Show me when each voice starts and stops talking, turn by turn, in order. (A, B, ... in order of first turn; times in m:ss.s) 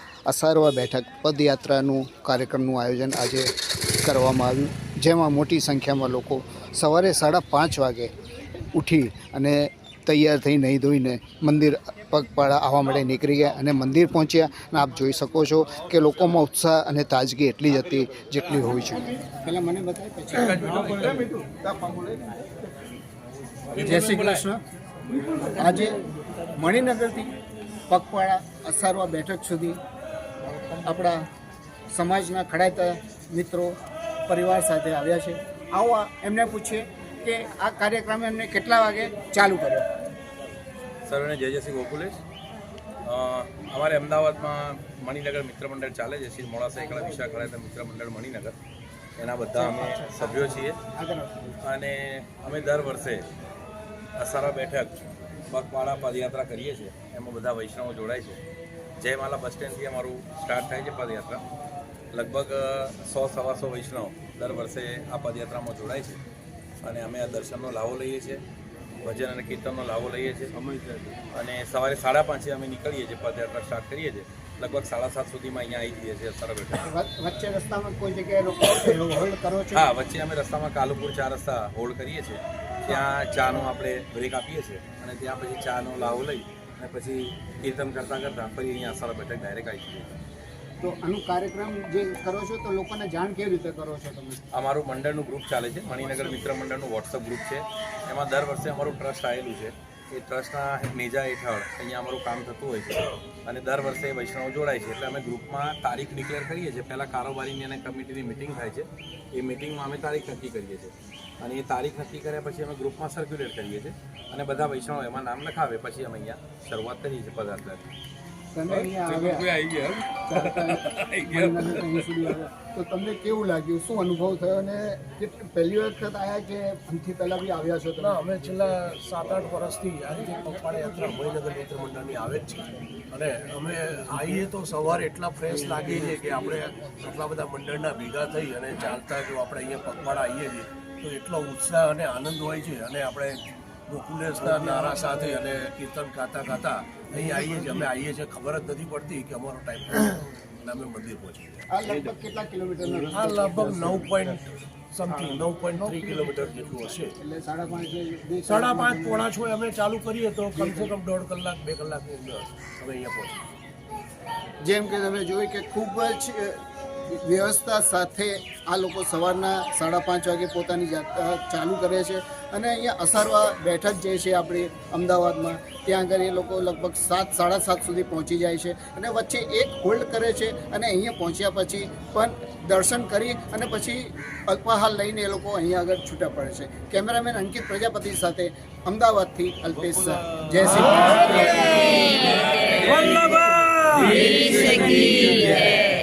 0:00.3-0:08.1 A
0:08.7-0:22.2 A
0:20.3-0:21.3 B
0:23.7-0:24.3 B
0:23.7-0:24.4 C
0:23.8-0:24.6 A
0:25.4-0:26.0 A
0:26.5-0:27.3 A
0:27.9-0:29.8 A
0:30.6-0:31.2 A
0:31.9-0:39.9 A
0:41.0-0:42.2 B
0:43.0-0:48.5 B
0:49.2-0:50.8 B
0:49.5-0:51.6 A
0:51.6-0:53.2 B
0:54.2-0:55.0 B
0:55.5-0:58.4 B
0:59.0-1:01.4 B
1:02.1-1:06.2 B
1:06.8-1:08.4 B
1:09.0-1:10.5 B
1:10.5-1:11.3 C
1:11.3-1:16.8 B
1:16.8-1:19.9 A
1:19.7-1:30.2 B
1:30.8-1:34.4 A
1:34.5-1:57.8 B
1:58.5-1:59.5 A
1:58.7-2:02.3 B
2:00.2-2:08.2 A
2:08.0-2:32.1 C
2:24.4-2:25.3 A
2:31.7-2:34.4 A
2:33.1-2:37.2 C
2:35.2-2:35.5 A
2:37.2-2:39.3 A
2:38.4-2:43.5 C
2:40.6-2:40.9 A
2:44.6-3:11.9 A
3:10.8-3:15.5 C
3:12.6-3:13.1 B